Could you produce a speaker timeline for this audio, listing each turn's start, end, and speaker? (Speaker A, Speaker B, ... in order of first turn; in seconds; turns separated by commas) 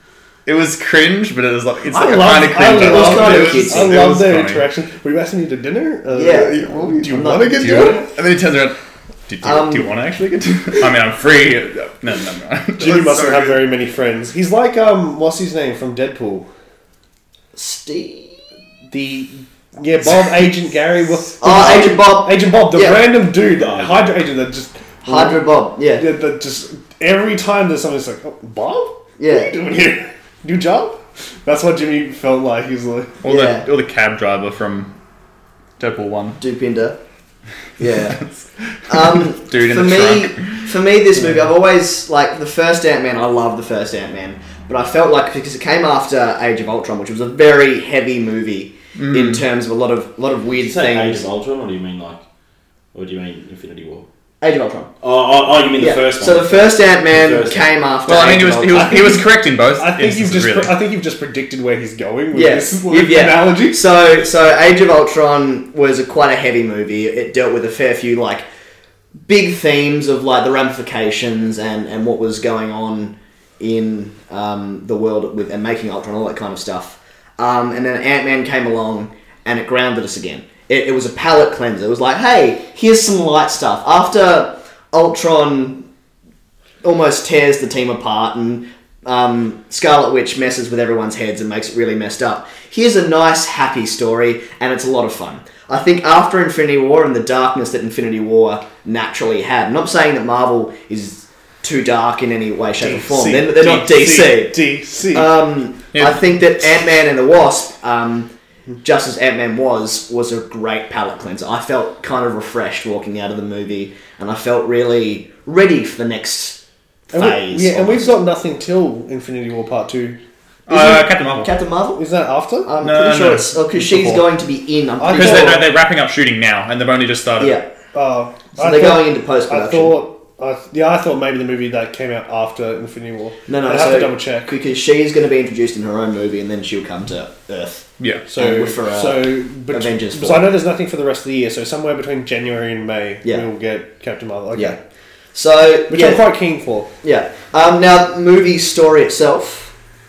Speaker A: 0.5-4.6, Speaker B: 1.9-8.0, Speaker C: 2.7-4.0, Speaker C: 6.1-8.1, Speaker A: 6.6-8.8, Speaker A: 9.3-13.6, Speaker C: 9.4-9.9, Speaker B: 12.8-16.5, Speaker C: 17.5-18.4, Speaker B: 18.9-33.1, Speaker C: 21.4-23.0, Speaker D: 23.5-24.2, Speaker C: 25.0-26.1, Speaker C: 29.2-29.6, Speaker A: 33.2-34.9, Speaker C: 33.2-33.7, Speaker A: 35.8-36.4, Speaker C: 36.4-37.0, Speaker C: 37.8-38.2, Speaker A: 37.9-40.7, Speaker C: 38.9-51.2, Speaker A: 49.0-49.4, Speaker D: 50.6-52.2, Speaker D: 52.9-54.1, Speaker C: 54.4-54.9, Speaker D: 55.0-57.7, Speaker C: 55.8-59.2, Speaker A: 58.0-60.7, Speaker B: 58.8-59.2, Speaker B: 59.8-63.8, Speaker C: 62.3-68.4, Speaker C: 69.2-85.9, Speaker C: 86.8-108.3, Speaker B: 102.8-105.3, Speaker A: 105.9-106.2, Speaker C: 108.8-116.6, Speaker C: 117.1-118.1, Speaker B: 117.1-120.2, Speaker A: 120.7-121.5, Speaker C: 120.7-122.0, Speaker B: 122.0-122.7, Speaker C: 122.6-125.6, Speaker A: 122.8-124.2, Speaker B: 125.0-125.6, Speaker A: 125.1-127.6, Speaker C: 127.4-127.7, Speaker B: 127.9-134.5, Speaker C: 128.6-130.0, Speaker C: 133.5-140.5, Speaker B: 138.3-144.8, Speaker C: 144.5-144.8, Speaker C: 145.3-146.2, Speaker B: 145.9-146.9, Speaker C: 147.0-149.7